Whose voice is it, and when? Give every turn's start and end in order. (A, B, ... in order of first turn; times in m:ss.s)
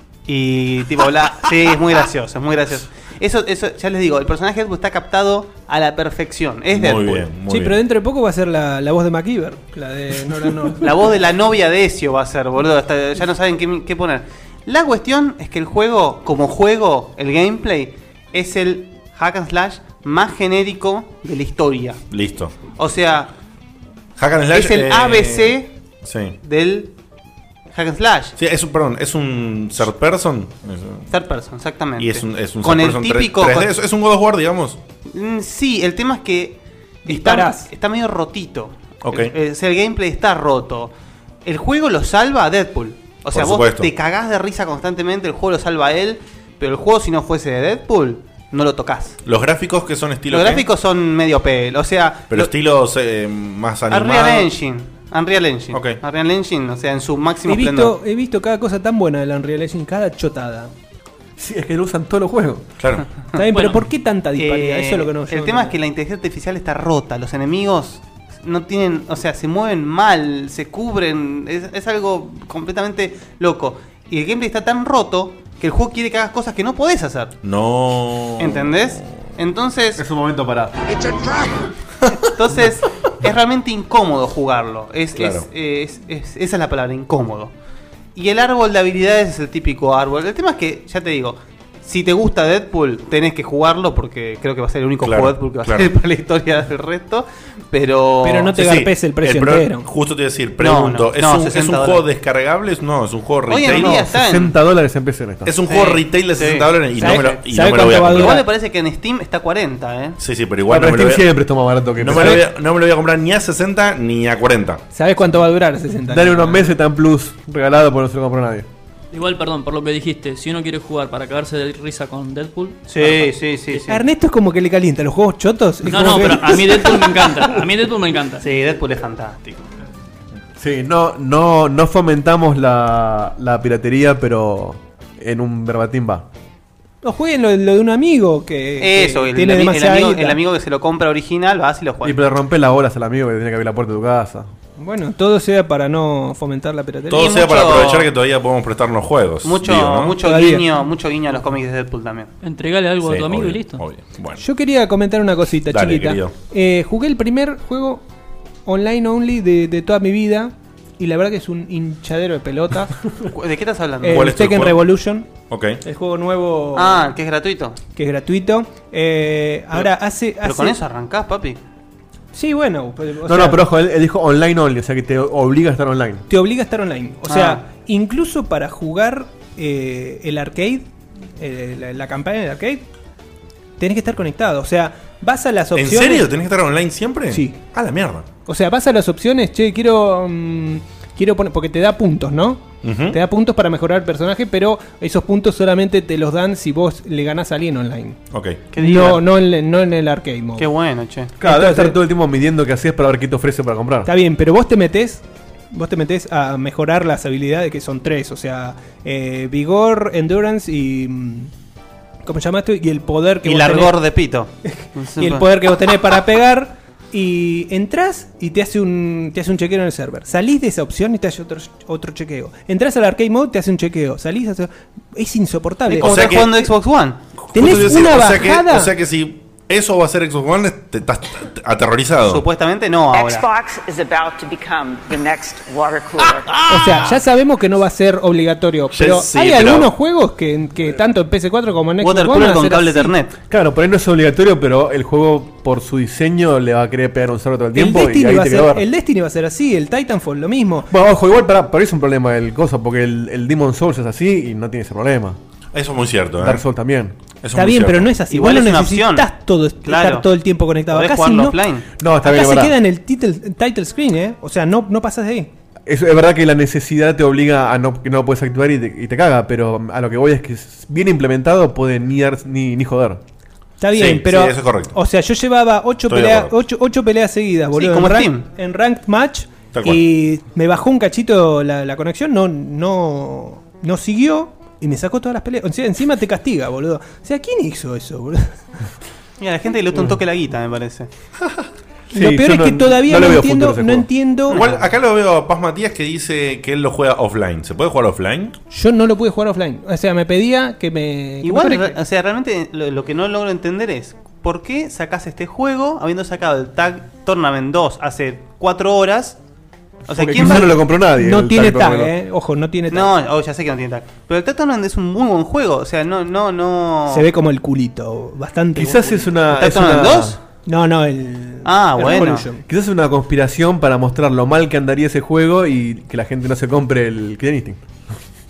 0:00.3-0:07.3 A
0:06.7-0:07.8 B
0:07.5-0:10.8 C
0:10.8-0:22.0 A
0:22.1-0:22.6 B
0:22.7-0:23.3 A
0:24.2-0:26.4 B
0:24.5-0:25.7 A
0:26.4-0:26.9 A
0:27.7-0:28.4 A
0:28.4-0:31.1 B
0:31.1-0:33.7 A
0:32.0-0:34.8 B
0:35.1-0:40.9 A
0:37.1-0:37.6 C
0:39.0-0:39.3 B
0:41.4-0:49.2 A
0:43.3-0:43.9 B
0:49.2-0:50.6 B
0:50.3-0:52.5 A
0:52.3-0:54.5 B
0:53.9-0:57.9 A
0:55.7-0:56.0 B
0:57.5-1:00.7 C
1:01.4-1:02.6 D
1:02.8-1:03.1 B
1:03.3-1:05.7 C
1:03.5-1:03.8 E
1:04.4-1:17.3 A
1:17.4-1:19.0 B
1:18.4-1:20.0 A
1:20.0-1:21.1 D
1:22.2-1:27.5 A
1:25.2-1:25.4 B
1:28.1-1:38.5 A
1:35.0-1:35.9 B
1:38.2-1:39.8 C
1:38.5-1:44.0 B
1:40.6-1:42.0 A
1:43.5-1:44.5 A
1:43.7-1:45.5 D
1:45.4-1:48.4 B
1:45.6-1:47.4 A
1:47.0-1:48.4 C
1:48.1-1:50.2 A
1:50.2-1:51.3 B
1:50.7-1:52.4 D
1:52.0-1:54.8 B
1:54.9-1:56.6 C
1:56.1-1:58.7 D
1:59.1-2:03.3 E
2:02.9-2:03.9 A
2:03.9-2:06.9 C
2:05.8-2:08.4 E
2:08.4-2:09.6 A
2:10.6-2:16.2 D
2:17.0-2:20.4 C
2:18.8-2:22.2 A
2:22.0-2:24.5 D
2:24.8-2:27.3 C
2:27.1-2:30.2 B
2:27.1-2:28.1 A
2:29.4-2:32.3 A
2:30.2-2:30.6 C
2:32.4-2:33.8 E
2:33.0-2:34.4 B
2:34.4-2:38.0 C
2:35.7-2:36.3 B
2:38.6-2:42.9 C
2:43.3-2:44.3 A
2:44.0-2:45.2 C
2:44.1-2:44.8 B
2:45.4-2:45.8 B
2:45.8-2:46.9 C
2:46.7-2:47.8 A
2:48.0-2:50.7 C
2:50.4-2:51.6 A
2:52.3-2:53.6 C
2:53.2-2:56.2 D
2:56.3-3:00.8 C
2:57.3-2:57.6 A
3:01.4-3:02.8 C
3:03.8-3:06.2 C
3:05.7-3:08.2 B
3:08.5-3:12.6 C
3:12.8-3:13.2 B
3:13.1-3:18.2 C
3:18.3-3:18.6 B
3:18.7-3:19.2 A
3:18.8-3:20.6 C
3:20.6-3:21.3 A
3:21.4-3:24.1 D
3:21.4-3:22.0 C
3:24.0-3:25.2 C
3:25.7-3:31.5 C
3:32.2-3:33.9 C
3:33.4-3:35.4 A
3:35.2-3:46.3 C
3:45.9-3:47.2 A
3:46.0-3:46.7 B
3:47.4-3:52.4 B
3:47.5-3:48.9 C
3:52.3-3:53.4 A
3:53.1-3:56.6 F
3:56.6-3:57.0 B
3:56.7-4:03.1 C
3:58.9-3:59.9 B
4:02.0-4:03.4 A
4:03.5-4:08.8 D
4:07.7-4:10.9 C
4:10.9-4:15.4 D
4:15.7-4:16.6 B
4:16.4-4:17.1 D
4:17.4-4:18.1 B
4:17.5-4:21.6 C
4:18.3-4:19.3 A
4:19.8-4:20.3 A
4:20.9-4:21.9 A
4:22.0-4:22.8 D
4:22.2-4:25.5 C
4:25.8-4:33.2 D
4:33.8-4:48.4 C
4:34.0-4:35.0 B
4:36.1-4:36.5 B
4:37.7-4:38.5 A
4:39.7-4:40.0 B
4:49.4-4:51.1 A
4:52.1-4:54.1 D
4:52.1-4:54.6 C
4:54.5-4:54.9 A
4:54.5-4:58.6 B
4:58.7-5:01.9 C
5:01.4-5:09.4 A
5:10.1-5:10.7 A
5:10.1-5:12.1 D
5:10.4-5:13.1 C
5:12.9-5:17.2 A
5:17.1-5:19.2 C
5:18.8-5:20.4 D
5:19.5-5:20.4 A
5:20.6-5:22.6 C
5:21.6-5:22.4 A
5:22.6-5:27.8 D